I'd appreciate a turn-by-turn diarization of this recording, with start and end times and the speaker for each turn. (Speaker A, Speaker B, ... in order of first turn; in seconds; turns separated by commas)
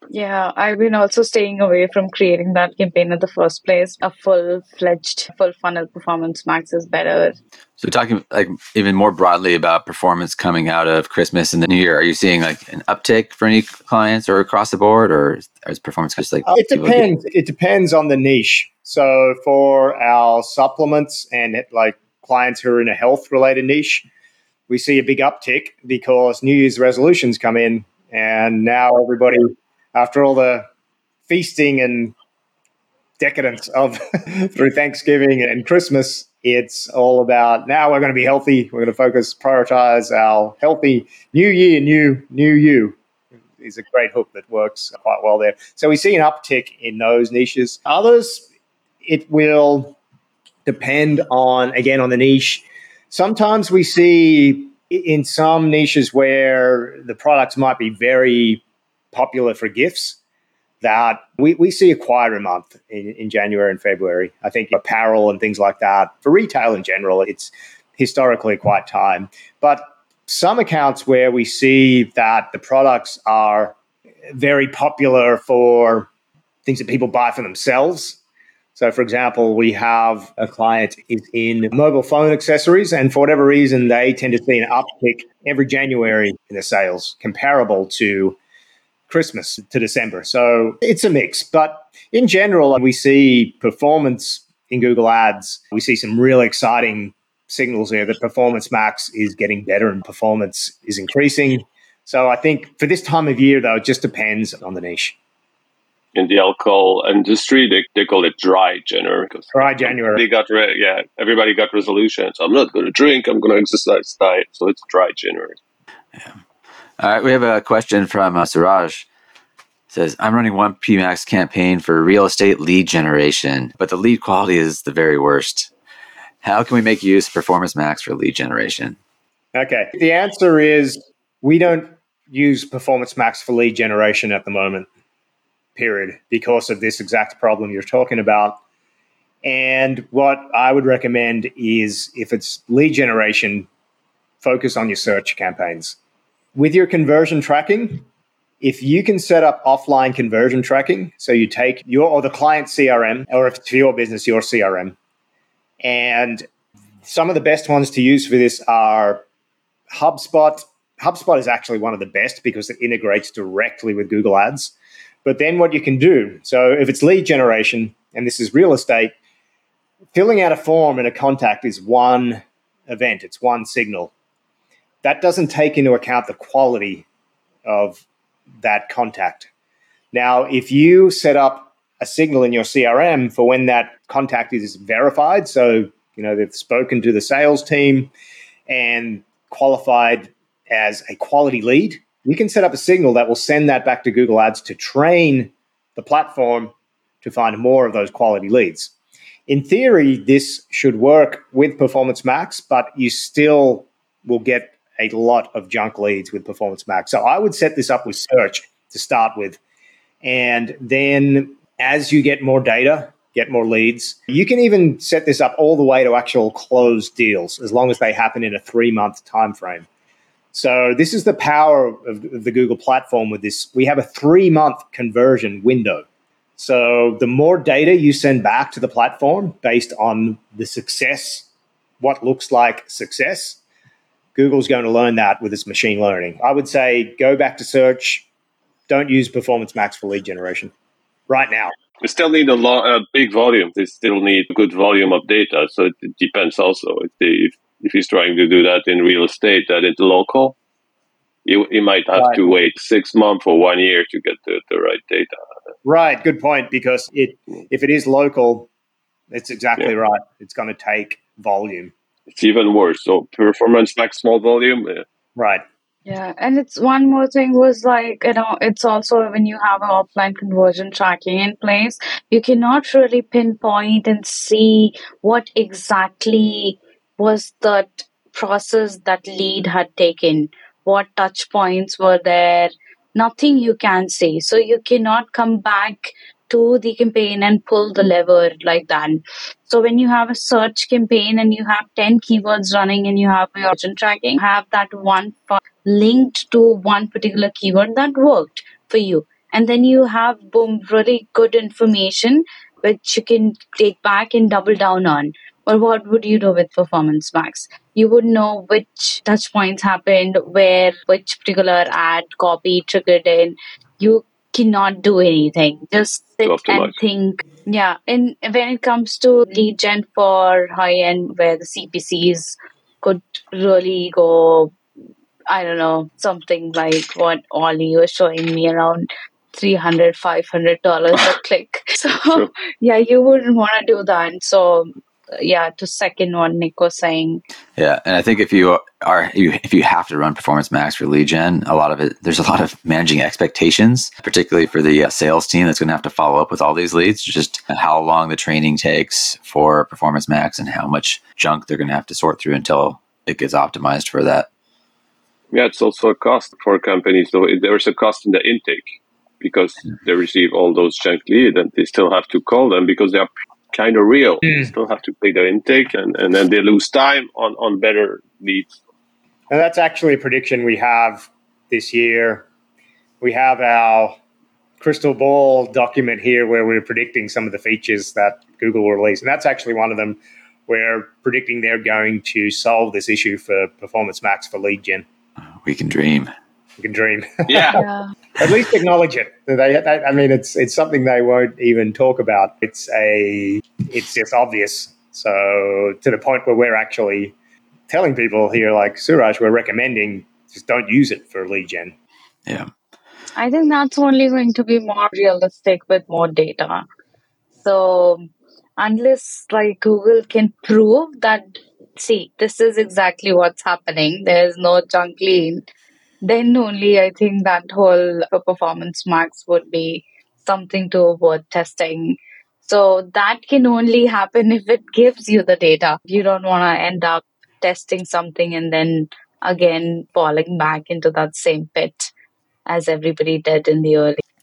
Speaker A: 0.1-7.4, Speaker B: 7.8-17.1, Speaker C: 16.5-24.1, Speaker C: 24.7-30.6, Speaker C: 31.3-32.1, Speaker C: 33.2-43.0, Speaker C: 43.6-48.5, Speaker C: 49.0-50.0, Speaker C: 50.6-58.6, Speaker C: 59.1-60.2, Speaker C: 60.8-73.8, Speaker C: 74.3-76.1, Speaker C: 76.7-78.2, Speaker C: 78.8-88.4, Speaker C: 89.1-105.2, Speaker D: 106.1-115.6, Speaker C: 109.5-110.2, Speaker B: 117.0-119.0, Speaker B: 119.9-125.7, Speaker B: 126.4-129.0, Speaker C: 129.5-134.9, Speaker C: 135.8-138.6, Speaker C: 139.4-143.7, Speaker C: 144.4-146.0, Speaker C: 146.5-148.0, Speaker C: 148.6-154.9, Speaker C: 155.8-156.4, Speaker C: 157.0-159.2, Speaker C: 159.9-164.7, Speaker C: 165.2-169.1, Speaker C: 170.1-174.1, Speaker C: 175.0-177.1, Speaker C: 177.6-178.0, Speaker C: 178.6-179.5, Speaker C: 180.1-188.1, Speaker C: 188.7-198.9, Speaker C: 199.5-209.6, Speaker C: 210.2-219.9, Speaker C: 220.5-226.1, Speaker C: 226.6-231.5, Speaker C: 232.0-233.6, Speaker C: 234.4-238.2, Speaker C: 238.9-240.7, Speaker C: 241.3-241.7, Speaker D: 242.0-250.6, Speaker D: 251.4-255.4, Speaker C: 252.1-252.4, Speaker C: 255.8-258.7, Speaker C: 259.3-261.9, Speaker D: 262.3-265.1, Speaker C: 265.4-265.6, Speaker A: 266.1-324.7, Speaker D: 316.4-316.9, Speaker A: 325.5-337.4, Speaker B: 337.8-354.5, Speaker D: 355.5-358.9, Speaker D: 359.4-368.7, Speaker C: 369.5-372.4, Speaker C: 373.2-374.2, Speaker C: 374.8-385.0, Speaker B: 385.6-386.3, Speaker C: 386.8-387.8, Speaker D: 387.5-387.8, Speaker A: 387.7-388.1, Speaker C: 388.4-397.3, Speaker C: 397.9-401.9, Speaker A: 403.4-406.8, Speaker A: 407.6-408.3, Speaker A: 408.8-415.6, Speaker A: 416.2-432.1, Speaker A: 432.6-434.2